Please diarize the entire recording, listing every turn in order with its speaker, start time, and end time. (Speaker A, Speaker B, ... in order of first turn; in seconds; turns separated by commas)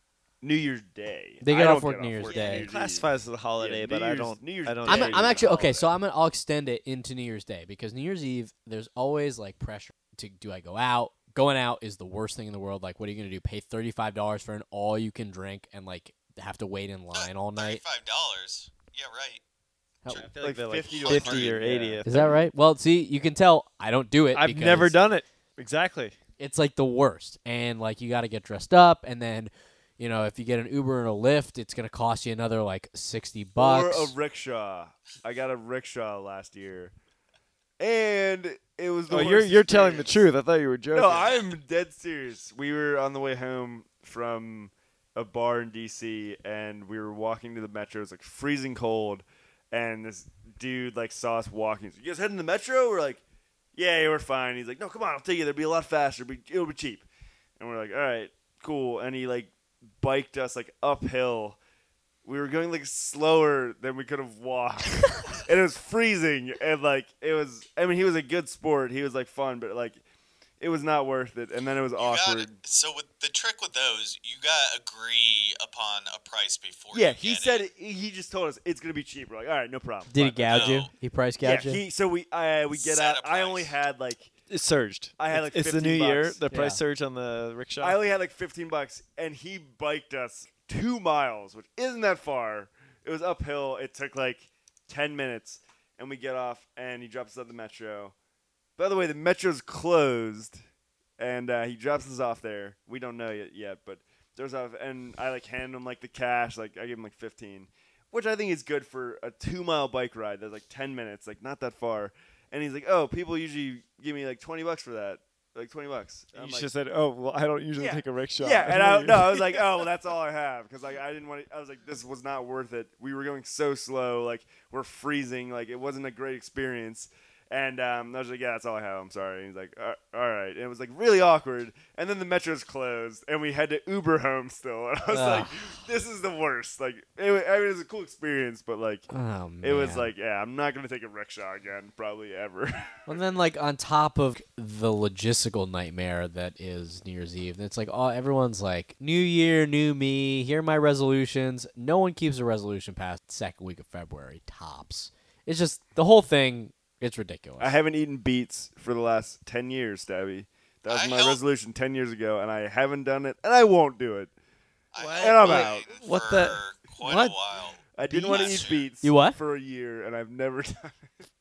Speaker A: 0.4-5.9, Speaker B: 1.4-2.7, Speaker C: 2.2-5.5, Speaker B: 4.8-17.8, Speaker D: 17.1-19.4, Speaker C: 20.1-22.4, Speaker A: 20.4-22.0, Speaker D: 20.9-21.6, Speaker B: 22.0-25.0, Speaker C: 24.3-26.1, Speaker B: 26.4-34.1, Speaker A: 33.6-36.9, Speaker A: 37.8-40.2, Speaker C: 39.1-41.3, Speaker A: 40.9-53.2, Speaker D: 41.1-41.5, Speaker A: 53.7-57.0, Speaker A: 57.6-61.6, Speaker A: 62.2-70.0, Speaker A: 70.6-72.5, Speaker D: 72.0-77.6, Speaker A: 76.9-80.7, Speaker B: 80.1-81.8, Speaker D: 80.5-80.9, Speaker A: 81.4-84.3, Speaker D: 82.7-83.7, Speaker C: 84.5-88.0, Speaker A: 85.2-86.4, Speaker B: 86.5-86.8, Speaker A: 87.8-98.1, Speaker A: 98.8-100.6, Speaker A: 101.2-116.7, Speaker C: 116.3-119.6, Speaker A: 117.8-139.1, Speaker B: 135.1-135.5, Speaker B: 139.1-140.1, Speaker A: 139.6-143.1, Speaker B: 143.1-157.7, Speaker A: 157.6-164.3, Speaker D: 160.9-161.4, Speaker D: 164.9-168.9, Speaker C: 165.0-167.3, Speaker A: 165.2-165.9, Speaker A: 167.9-171.1, Speaker C: 168.1-168.6, Speaker B: 169.0-169.4